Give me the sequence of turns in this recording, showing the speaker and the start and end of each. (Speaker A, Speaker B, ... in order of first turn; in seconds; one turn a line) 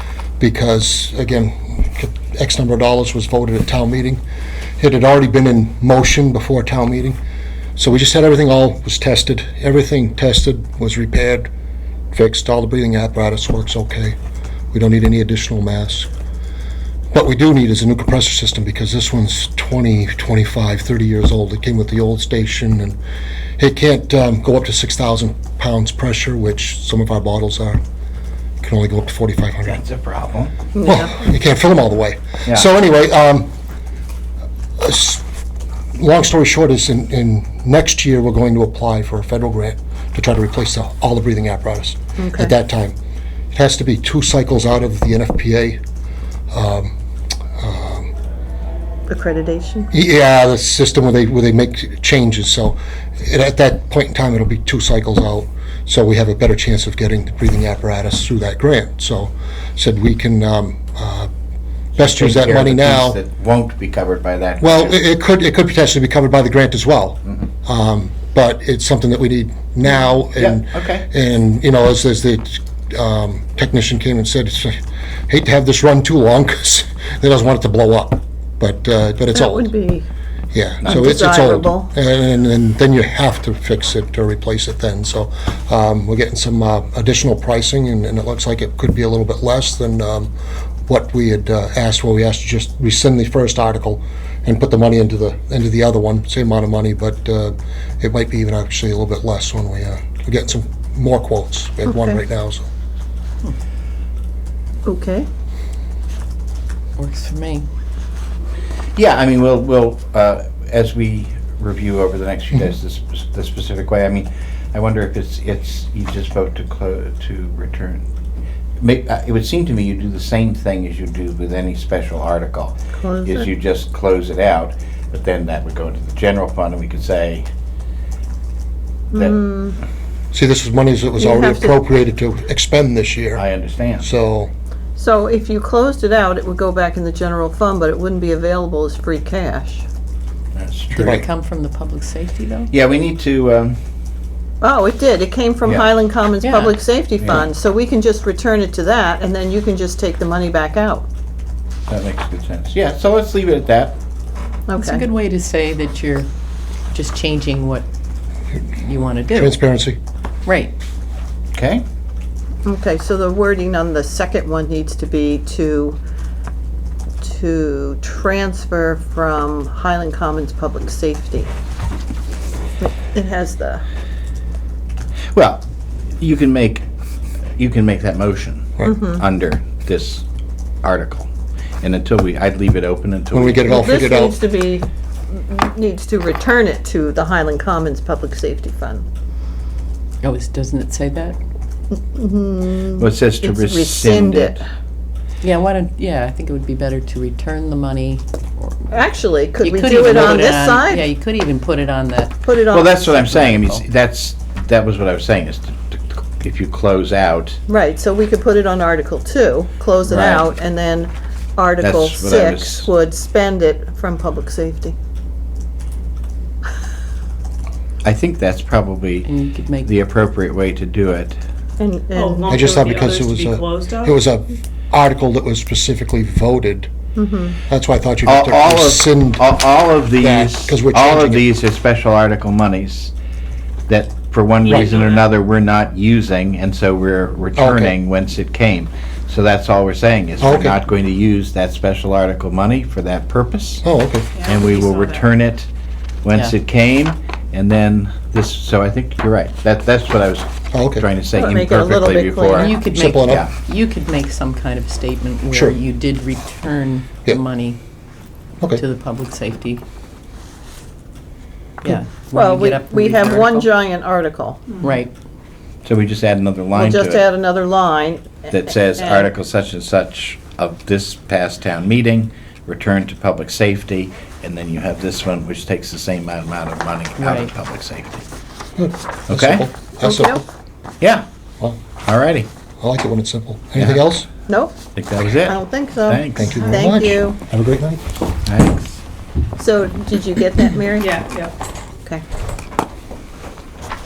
Speaker A: 0.4-4.2
Speaker A: 4.8-7.2
Speaker A: 7.8-11.5
Speaker A: 12.1-14.2
Speaker A: 14.7-16.1
Speaker A: 17.1-23.0
Speaker A: 23.6-27.8
Speaker A: 28.6-29.8
Speaker B: 29.6-30.5
Speaker C: 30.7-31.1
Speaker A: 30.8-33.5
Speaker A: 34.8-35.2
Speaker A: 35.9-43.0
Speaker C: 42.2-42.5
Speaker A: 43.5-45.8
Speaker A: 46.5-46.9
Speaker A: 47.6-48.1
Speaker C: 49.1-49.9
Speaker A: 49.9-61.3
Speaker B: 61.9-65.0
Speaker A: 62.0-63.2
Speaker A: 64.6-79.7
Speaker B: 70.3-71.1
Speaker C: 79.3-80.0
Speaker A: 80.5-90.3
Speaker C: 80.8-81.9
Speaker A: 90.9-102.7
Speaker C: 101.9-102.2
Speaker C: 104.8-105.3
Speaker D: 107.0-107.7
Speaker B: 109.0-118.1
Speaker B: 118.8-127.5
Speaker C: 123.0-123.5
Speaker C: 129.1-129.8
Speaker B: 129.1-129.4
Speaker A: 130.3-133.4
Speaker C: 131.2-131.8
Speaker B: 133.3-134.1
Speaker A: 134.0-134.5
Speaker C: 135.0-139.8
Speaker B: 140.6-141.2
Speaker D: 140.9-142.7
Speaker B: 142.7-143.8
Speaker C: 144.6-151.1
Speaker B: 145.6-145.9
Speaker D: 146.4-146.7
Speaker B: 147.2-147.5
Speaker B: 151.9-153.9
Speaker C: 154.7-155.0
Speaker D: 154.8-156.3
Speaker D: 156.9-157.9
Speaker D: 158.7-159.6
Speaker A: 159.3-160.0
Speaker D: 160.4-160.7
Speaker B: 161.5-161.8
Speaker C: 162.6-166.0
Speaker C: 167.2-171.5
Speaker C: 172.8-173.8
Speaker B: 175.3-175.6
Speaker B: 176.2-176.8
Speaker B: 177.6-180.2
Speaker C: 178.8-179.2
Speaker B: 180.8-181.3
Speaker B: 181.8-183.9
Speaker A: 183.3-184.4
Speaker C: 183.6-189.0
Speaker D: 190.2-191.4
Speaker C: 192.1-194.6
Speaker B: 193.0-194.6
Speaker D: 195.4-199.0
Speaker C: 198.9-201.1
Speaker D: 199.6-202.4
Speaker C: 202.4-203.2
Speaker B: 202.7-207.6
Speaker D: 203.1-203.8
Speaker C: 207.7-214.9
Speaker B: 210.1-210.5
Speaker B: 211.8-212.9
Speaker B: 218.0-219.3
Speaker D: 219.2-219.9
Speaker B: 219.8-221.4
Speaker C: 221.8-222.6
Speaker E: 222.1-224.2
Speaker A: 222.5-226.9
Speaker C: 227.1-227.6
Speaker A: 227.7-229.5
Speaker B: 228.2-233.1
Speaker A: 230.2-231.4
Speaker B: 233.9-243.8
Speaker E: 234.7-235.3
Speaker A: 237.6-237.9
Speaker A: 240.4-240.8
Speaker A: 243.8-244.3
Speaker E: 244.3-245.3
Speaker B: 244.4-245.7
Speaker B: 246.2-253.5
Speaker A: 250.7-251.1
Speaker C: 251.3-252.7
Speaker D: 252.5-257.8
Speaker A: 252.8-253.5
Speaker D: 258.7-259.8
Speaker D: 261.8-263.7
Speaker C: 261.9-264.7
Speaker D: 264.8-265.1
Speaker B: 265.8-267.2
Speaker C: 266.7-269.3
Speaker B: 268.5-278.2
Speaker D: 277.2-277.5
Speaker A: 278.8-280.4
Speaker B: 279.3-279.7
Speaker C: 280.0-280.4
Speaker B: 281.0-281.2
Speaker B: 282.0-282.5
Speaker A: 282.8-284.3
Speaker B: 283.8-284.1
Speaker C: 284.5-284.8
Speaker B: 284.9-286.6
Speaker C: 285.4-287.4
Speaker A: 286.4-288.0
Speaker B: 288.4-289.0
Speaker C: 289.6-291.2
Speaker E: 291.0-291.5